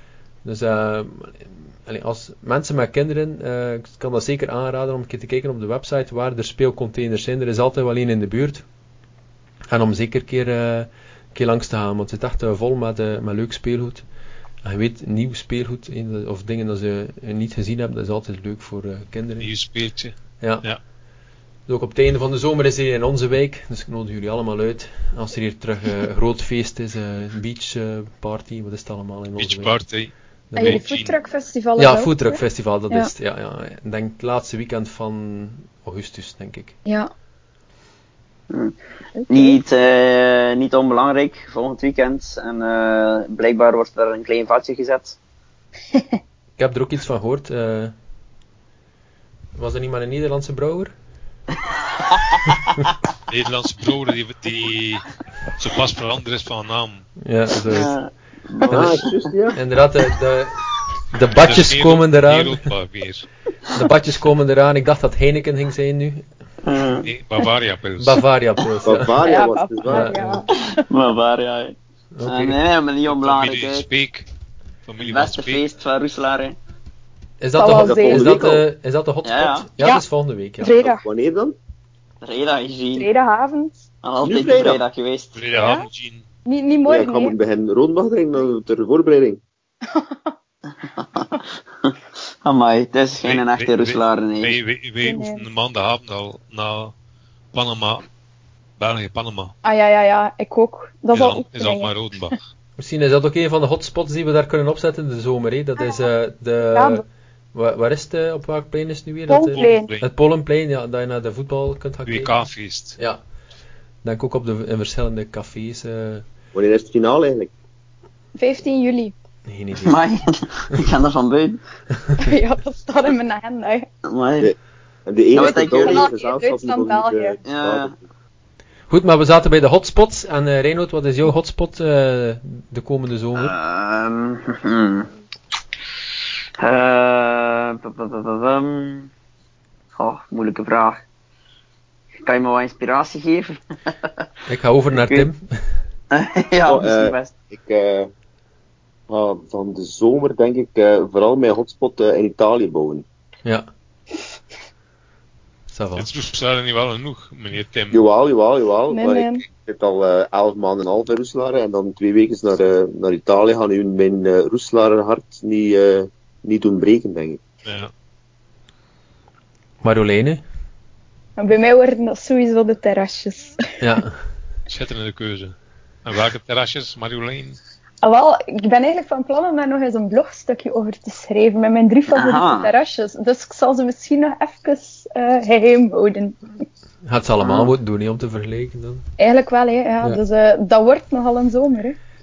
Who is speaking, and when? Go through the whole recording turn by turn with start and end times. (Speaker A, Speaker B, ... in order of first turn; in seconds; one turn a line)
Speaker A: 0.4-8.6
Speaker A: 9.7-14.0
Speaker A: 14.6-19.5
Speaker B: 19.4-20.8
Speaker A: 20.4-20.6
Speaker A: 21.7-29.7
Speaker B: 29.4-31.1
Speaker A: 30.5-30.9
Speaker C: 30.5-33.1
Speaker A: 31.8-36.7
Speaker D: 38.5-45.1
Speaker C: 39.2-39.6
Speaker A: 46.6-47.9
Speaker A: 49.5-50.9
Speaker D: 52.1-52.4
Speaker B: 53.3-57.1
Speaker A: 57.2-58.0
Speaker D: 57.6-59.1
Speaker A: 58.6-62.6
Speaker E: 58.7-59.6
Speaker B: 61.4-63.3
Speaker A: 63.7-66.2
Speaker D: 66.6-67.1
Speaker B: 67.0-68.2
Speaker A: 68.0-69.2
Speaker E: 68.8-70.4
Speaker C: 69.2-70.6
Speaker A: 69.8-70.4
Speaker D: 70.5-73.9
Speaker A: 72.1-72.6
Speaker B: 73.0-74.3
Speaker B: 74.9-75.6
Speaker D: 75.0-76.5
Speaker A: 77.4-80.8
Speaker C: 77.6-78.5
Speaker E: 77.8-78.6
Speaker D: 79.2-79.7
Speaker C: 80.6-81.0
Speaker E: 80.8-81.5
Speaker D: 82.2-83.1
Speaker C: 82.9-83.9
Speaker D: 84.0-85.4
Speaker E: 84.2-84.8
Speaker B: 85.3-86.2
Speaker C: 85.5-85.9
Speaker C: 86.5-87.3
Speaker E: 86.8-89.4
Speaker C: 89.9-90.3
Speaker D: 91.0-94.5
Speaker B: 93.2-96.9
Speaker C: 95.0-95.5
Speaker B: 97.5-98.0
Speaker B: 98.8-99.5
Speaker C: 99.6-101.9
Speaker B: 101.1-102.4
Speaker A: 102.8-107.0
Speaker C: 106.6-107.0
Speaker A: 107.5-112.4
Speaker C: 109.3-109.9
Speaker B: 109.5-110.1
Speaker B: 112.1-113.0
Speaker A: 114.0-116.2
Speaker E: 116.5-117.5
Speaker C: 118.3-119.1
Speaker A: 119.5-120.0
Speaker D: 119.8-121.6
Speaker C: 122.2-123.9
Speaker D: 124.0-124.5
Speaker E: 124.4-128.0
Speaker D: 125.3-126.1
Speaker C: 125.3-127.4
Speaker D: 127.4-127.9
Speaker A: 128.9-133.5
Speaker D: 133.3-135.1
Speaker D: 136.6-139.1
Speaker D: 140.0-141.0
Speaker D: 142.2-144.2
Speaker A: 144.5-145.4
Speaker D: 145.0-145.3
Speaker D: 146.1-147.3
Speaker E: 146.7-148.1
Speaker E: 149.1-153.0
Speaker A: 155.7-156.1
Speaker B: 155.9-158.0
Speaker E: 157.9-167.4
Speaker C: 158.9-159.4
Speaker B: 167.6-167.9
Speaker A: 169.8-170.4
Speaker C: 171.4-173.6
Speaker A: 173.8-174.2
Speaker B: 174.7-177.6
Speaker C: 178.0-186.4
Speaker D: 182.1-182.7
Speaker A: 187.1-189.0
Speaker D: 187.4-187.7
Speaker C: 189.2-192.0